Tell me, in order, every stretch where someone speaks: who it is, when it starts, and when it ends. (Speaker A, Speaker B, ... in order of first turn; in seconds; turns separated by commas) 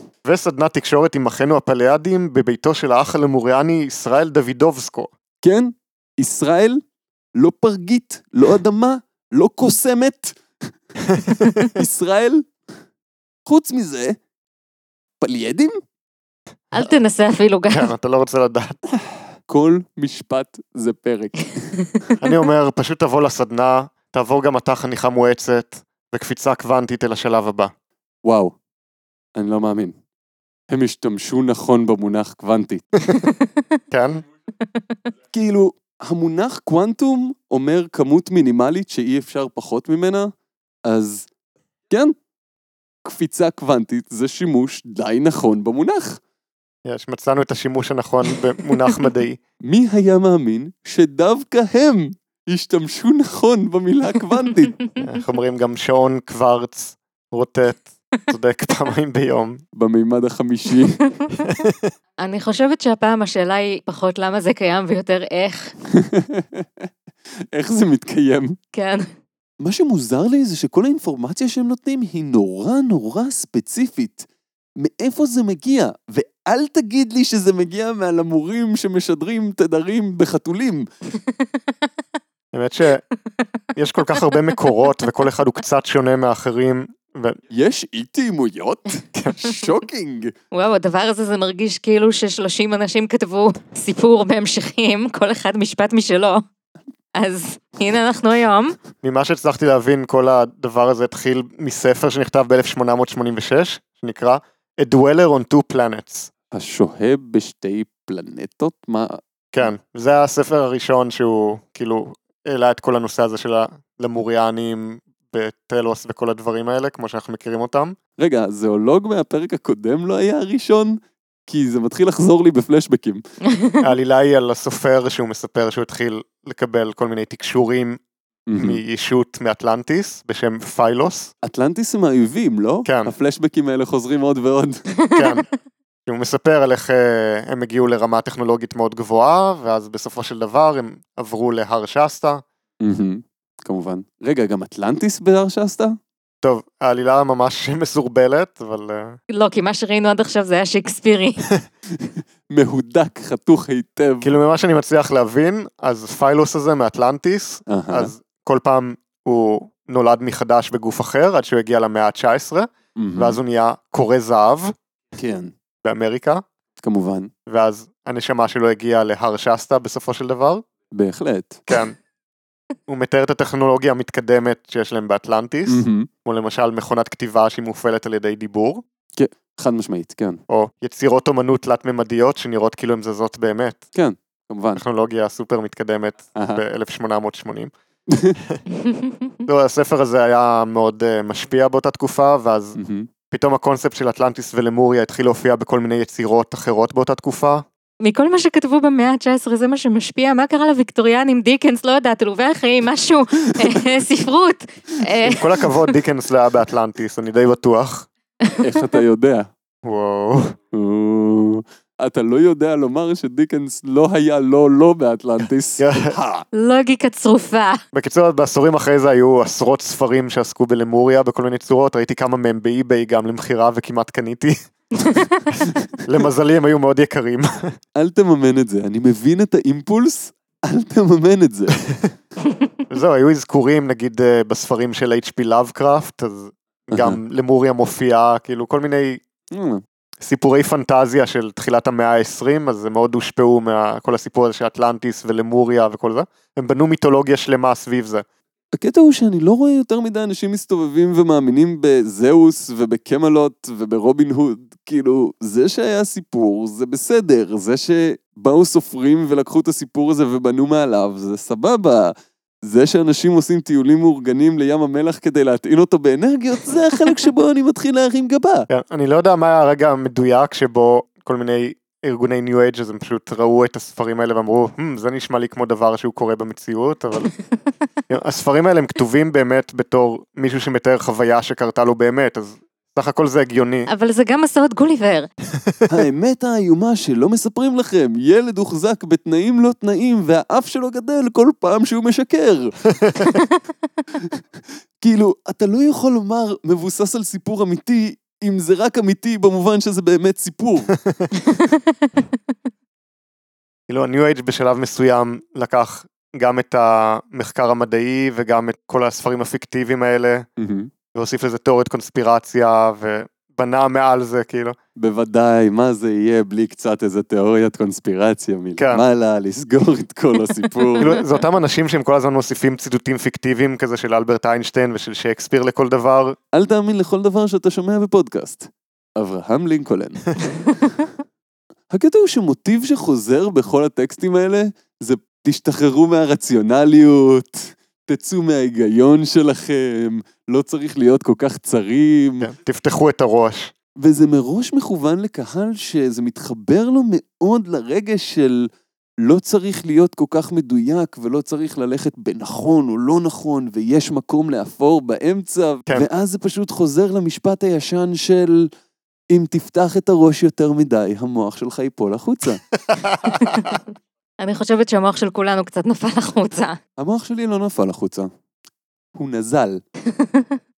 Speaker A: 0.2-5.1, Speaker B: 5.4-6.8, Speaker B: 7.3-10.7, Speaker A: 11.1-11.7, Speaker B: 11.6-12.5, Speaker B: 13.4-14.2, Speaker B: 15.2-15.7, Speaker C: 16.7-17.9, Speaker A: 17.7-18.8, Speaker B: 19.5-21.9, Speaker A: 22.2-27.7, Speaker B: 28.2-28.5, Speaker B: 29.4-29.9, Speaker B: 30.7-32.9, Speaker C: 33.2-33.4, Speaker A: 33.9-34.2, Speaker B: 35.3-40.3, Speaker B: 40.9-41.3, Speaker B: 43.0-46.2, Speaker A: 46.8-49.4, Speaker B: 49.6-54.7, Speaker A: 55.0-59.6, Speaker B: 59.7-61.0, Speaker A: 61.4-61.9, Speaker C: 62.2-65.7, Speaker B: 65.9-66.9, Speaker B: 67.5-68.6, Speaker C: 68.7-69.1, Speaker B: 69.6-74.3, Speaker B: 74.8-80.9, Speaker A: 82.5-83.0, Speaker A: 83.8-87.4, Speaker B: 87.5-90.3, Speaker A: 89.2-89.4, Speaker C: 90.5-96.4, Speaker C: 97.1-98.8, Speaker A: 99.0-106.3, Speaker B: 106.5-109.2, Speaker A: 109.5-118.0, Speaker B: 118.2-123.2, Speaker C: 123.5-123.8, Speaker A: 123.8-128.0, Speaker B: 128.5-128.8, Speaker A: 128.6-131.3, Speaker B: 131.4-134.8, Speaker A: 132.8-133.1, Speaker C: 135.0-135.3, Speaker A: 135.1-135.4, Speaker A: 136.1-142.4, Speaker B: 142.8-145.9, Speaker A: 146.4-149.2, Speaker C: 149.3-151.4, Speaker B: 151.9-154.4, Speaker A: 154.2-164.7, Speaker B: 157.7-158.1, Speaker B: 162.9-163.4, Speaker B: 165.2-165.5, Speaker A: 165.8-166.4, Speaker B: 166.8-167.3, Speaker A: 167.5-170.6, Speaker B: 170.9-171.6, Speaker A: 171.7-172.0, Speaker A: 172.9-178.8, Speaker B: 175.7-176.1, Speaker B: 179.2-180.4, Speaker A: 180.5-183.8, Speaker B: 183.9-184.8, Speaker A: 184.8-187.7, Speaker B: 186.3-186.6, Speaker B: 188.1-188.4, Speaker C: 188.8-189.3, Speaker A: 189.4-192.8, Speaker B: 192.8-193.1, Speaker A: 193.3-197.6, Speaker C: 198.0-205.7, Speaker A: 205.2-208.1, Speaker C: 208.4-208.8, Speaker B: 208.6-209.5, Speaker A: 209.8-210.6, Speaker B: 210.7-216.4, Speaker A: 215.8-216.1, Speaker C: 216.5-217.8, Speaker A: 217.9-224.6, Speaker A: 226.0-227.7, Speaker B: 227.9-231.8, Speaker A: 232.9-239.2, Speaker B: 236.9-237.2, Speaker B: 239.5-239.8, Speaker A: 240.2-248.2, Speaker B: 248.8-268.7, Speaker A: 268.7-277.3, Speaker A: 278.1-283.9, Speaker C: 283.9-285.3, Speaker B: 285.9-292.7, Speaker A: 292.9-293.4, Speaker B: 295.0-300.9, Speaker A: 300.9-301.3, Speaker C: 301.5-302.2, Speaker A: 303.9-310.5, Speaker B: 310.6-310.9, Speaker A: 311.1-314.8, Speaker B: 315.0-321.2, Speaker A: 318.8-319.0, Speaker C: 320.9-321.2, Speaker A: 321.0-326.4, Speaker B: 326.5-330.2, Speaker B: 331.9-342.5, Speaker A: 342.4-343.7, Speaker B: 344.0-348.7, Speaker B: 349.2-358.7, Speaker B: 359.3-362.6, Speaker A: 362.9-363.8, Speaker C: 363.4-363.8, Speaker C: 364.4-366.8, Speaker B: 367.0-368.3, Speaker B: 369.1-369.8, Speaker C: 370.1-370.6